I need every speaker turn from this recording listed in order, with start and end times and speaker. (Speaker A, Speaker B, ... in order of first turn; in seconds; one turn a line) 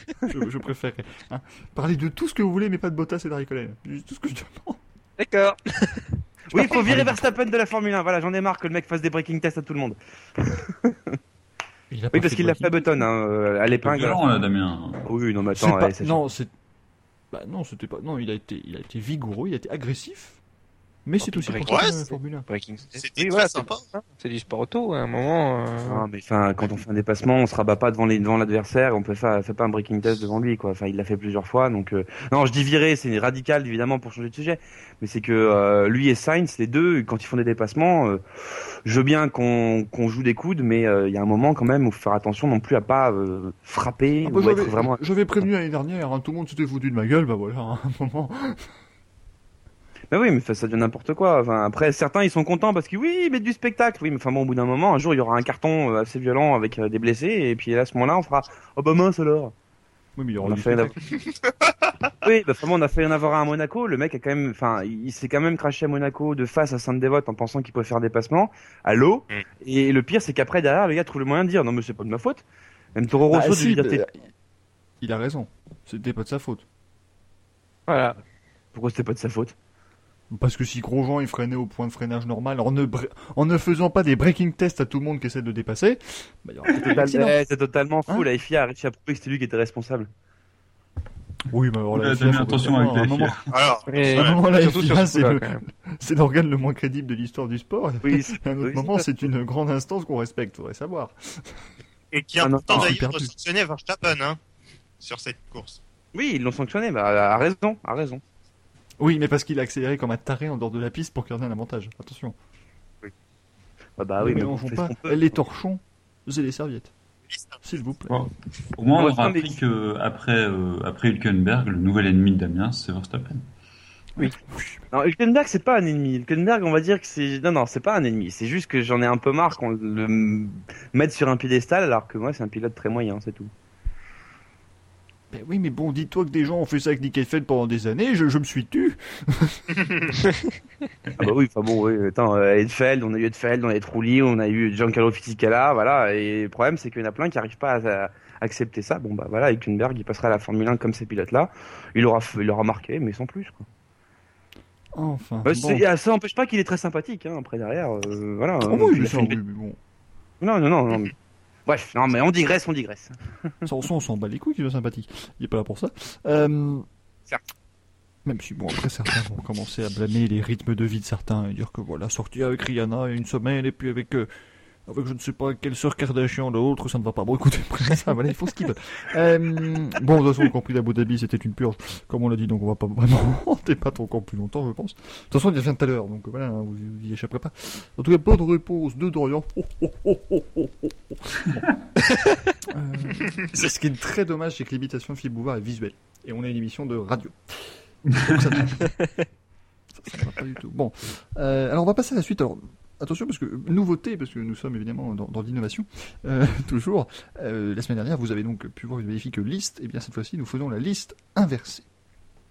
Speaker A: 0.3-4.8
Speaker B: 5.2-6.1
Speaker C: 6.5-11.2
Speaker A: 6.8-7.2
Speaker A: 11.9-13.0
Speaker C: 12.1-14.2
Speaker D: 13.8-15.1
Speaker C: 15.1-16.2
Speaker A: 15.6-16.5
Speaker A: 17.3-20.4
Speaker A: 21.0-22.5
Speaker B: 21.2-26.0
Speaker E: 21.6-21.9
Speaker E: 22.9-23.9
Speaker C: 25.8-38.2
Speaker C: 38.9-45.0
Speaker A: 44.2-48.6
Speaker C: 50.1-59.5
Speaker A: 60.1-61.0
Speaker C: 60.4-61.0
Speaker C: 62.2-72.4
Speaker C: 72.9-74.0
Speaker A: 73.3-74.2
Speaker A: 75.0-76.6
Speaker B: 77.9-78.2
Speaker C: 78.7-79.5
Speaker A: 80.3-87.4
Speaker C: 86.8-90.1
Speaker A: 91.5-93.4
Speaker D: 91.9-93.5
Speaker E: 93.5-94.4
Speaker B: 93.8-95.6
Speaker A: 94.1-101.5
Speaker C: 98.0-99.1
Speaker E: 102.1-104.4
Speaker C: 102.4-102.9
Speaker A: 102.7-103.3
Speaker E: 105.0-105.8
Speaker C: 106.1-108.2
Speaker A: 109.0-112.3
Speaker C: 114.0-115.3
Speaker A: 114.2-116.9
Speaker E: 117.3-117.6
Speaker A: 117.6-118.3
Speaker D: 118.1-123.5
Speaker C: 119.0-119.5
Speaker A: 124.2-124.8
Speaker C: 124.9-133.5
Speaker A: 135.3-139.7
Speaker C: 141.2-153.6
Speaker A: 154.9-155.8
Speaker C: 155.4-159.4
Speaker A: 158.6-159.8
Speaker C: 160.4-161.1
Speaker C: 161.7-163.2
Speaker A: 163.6-166.8
Speaker A: 168.2-174.3
Speaker A: 174.9-191.6
Speaker B: 192.1-192.5
Speaker A: 192.6-198.9
Speaker A: 199.9-211.8